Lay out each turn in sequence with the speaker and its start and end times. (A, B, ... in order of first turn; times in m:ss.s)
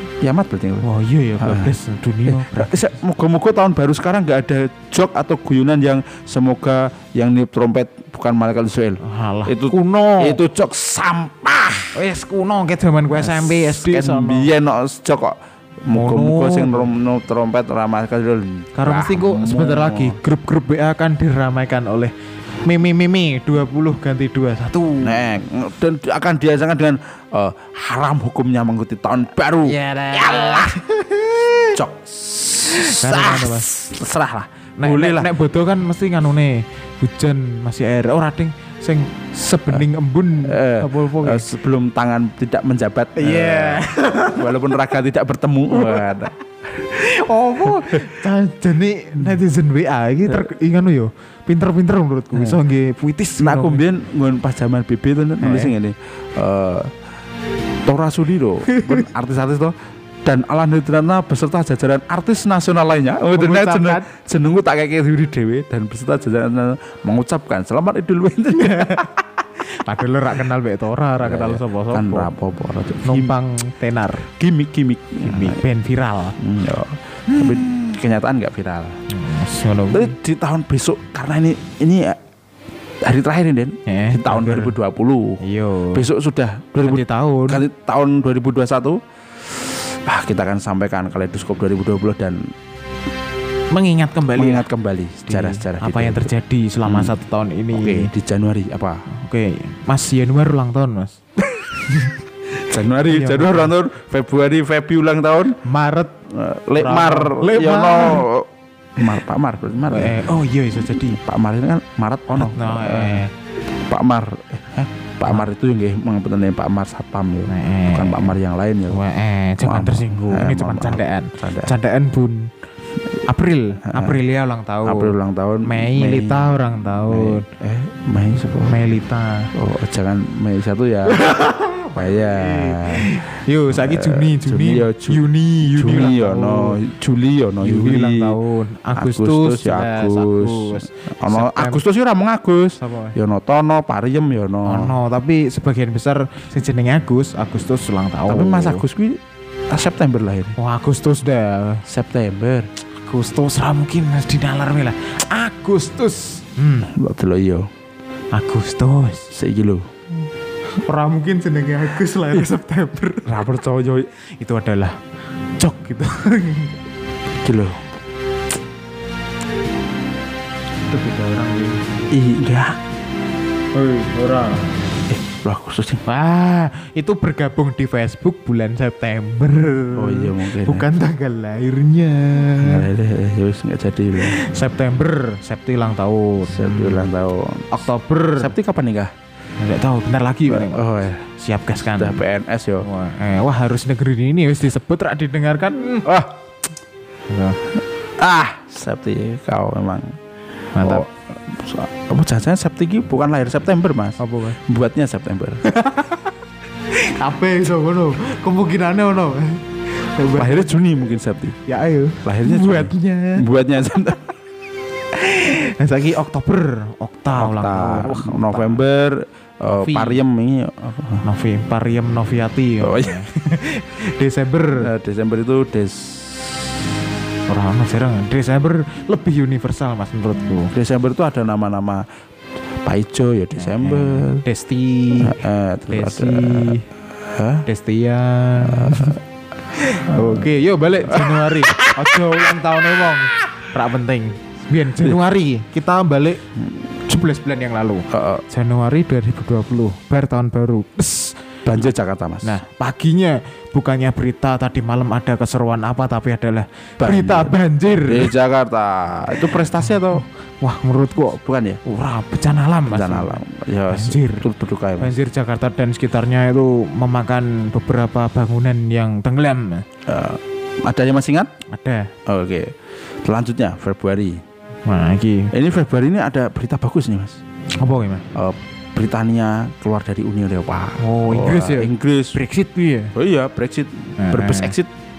0:00.2-0:00.9 A
0:00.8-0:02.7 B
0:01.4-0:01.7 A
0:02.3-0:11.9 A
0:09.0-0:10.4 B
0:11.9-0:14.5 B
0:13.1-0:20.2 A
0:15.9-0:16.9 B
0:18.8-0:22.1 B
0:22.6-0:25.2 B
0:25.0-0:30.8 A
0:29.6-0:31.8 B
0:31.7-0:35.3 A
0:32.6-0:33.7 B
0:34.8-0:41.5 B
0:40.4-0:46.3 A
0:43.2-0:44.7 B
0:45.7-0:46.1 B
0:46.8-0:53.8 B
0:47.6-0:48.1 A
0:52.3-0:52.6 A
0:53.4-0:56.9 A
0:55.4-0:55.7 B
0:57.8-1:09.1 A
0:58.7-0:59.0 B
1:03.3-1:04.1 B
1:08.5-1:09.1 B
1:09.6-1:12.3 B
1:11.2-1:13.4 A
1:13.0-1:14.3 B
1:14.3-1:15.6 A
1:15.2-1:16.4 B
1:16.4-1:19.0 A
1:17.3-1:17.8 B
1:19.1-1:20.1 B
1:19.9-1:22.2 A
1:23.0-1:25.4 A
1:23.9-1:24.7 B
1:25.4-1:26.0 B
1:25.9-1:32.4 A
1:26.8-1:27.6 B
1:33.7-1:34.6 B
1:34.4-1:36.3 A
1:35.3-1:38.1 B
1:36.8-1:37.1 A
1:37.7-1:39.0 A
1:39.1-1:42.2 B
1:42.7-1:45.6 A
1:43.1-1:43.7 B
1:45.6-1:46.1 B
1:46.3-1:50.3 A
1:46.8-1:48.2 B
1:49.9-1:51.2 B
1:50.9-1:53.2 A
1:52.3-1:53.3 B
1:53.9-1:59.0 A
1:57.5-1:58.3 B
1:58.9-2:02.5 B
1:59.6-2:01.7 A
2:03.2-2:05.1 B
2:03.8-2:04.2 A
2:04.8-2:06.5 A
2:05.6-2:07.4 B
2:07.1-2:08.8 A
2:08.6-2:09.5 B
2:09.5-2:11.2 A
2:11.1-2:16.8 B
2:11.9-2:18.4 A
2:17.6-2:21.8 B
2:19.0-2:24.9 A
2:22.8-2:23.1 B
2:24.6-2:28.8 B
2:28.3-2:30.6 A
2:30.6-2:31.8 B
2:31.8-2:32.7 A
2:33.0-2:36.9 B
2:36.9-2:37.7 A
2:38.3-2:39.3 B
2:39.3-2:39.9 A
2:40.8-2:43.4 B
2:43.2-2:44.1 A
2:44.4-2:45.0 B
2:45.6-2:46.8 B
2:47.4-2:47.8 A
2:50.9-2:51.8 B
2:52.1-2:52.8 A
2:53.7-2:54.7 B
2:55.1-2:56.0 A
2:56.0-3:02.9 B
2:59.9-3:00.9 A
3:02.6-3:04.4 A
3:04.2-3:07.1 B
3:06.4-3:07.8 A
3:07.7-3:08.5 B
3:08.4-3:09.1 A
3:09.6-3:12.2 B
3:10.5-3:11.2 A
3:12.0-3:12.8 A
3:12.8-3:16.1 B
3:16.0-3:16.3 A
3:17.3-3:17.6 B
3:18.2-3:20.2 A
3:20.7-3:21.0 B
3:20.8-3:25.6 A
3:24.2-3:24.6 B
3:25.6-3:26.3 B
3:26.9-3:30.7 B
3:30.3-3:31.6 A
3:31.6-3:33.4 B
3:32.2-3:34.3 A
3:35.1-3:38.8 B
3:37.3-3:41.2 A
3:39.7-3:40.2 B
3:41.2-3:44.9 B
3:42.8-3:43.2 A
3:44.8-3:46.7 A
3:47.5-3:50.7 B
3:50.7-3:52.0 A
3:52.8-3:54.4 A
3:53.6-3:56.8 B
3:55.2-3:57.6 A
3:57.6-3:59.2 B
3:58.6-3:59.2 A
3:59.7-4:06.4 B
4:00.1-4:00.5 A
4:01.1-4:02.6 A
4:07.1-4:11.4 B
4:08.1-4:08.4 A
4:11.6-4:12.5 A
4:12.4-4:18.3 B
4:17.0-4:20.2 A
4:19.4-4:24.5 B
4:21.4-4:21.8 A
4:22.9-4:25.1 A
4:25.0-4:29.8 B
4:30.0-4:31.5 A
4:31.7-4:32.1 B
4:32.2-4:34.4 A
4:34.8-4:35.5 B
4:35.5-4:37.4 A
4:37.8-4:38.2 B
4:38.3-4:42.4 A
4:41.0-4:43.1 B
4:43.1-4:44.9 A
4:44.2-4:44.7 B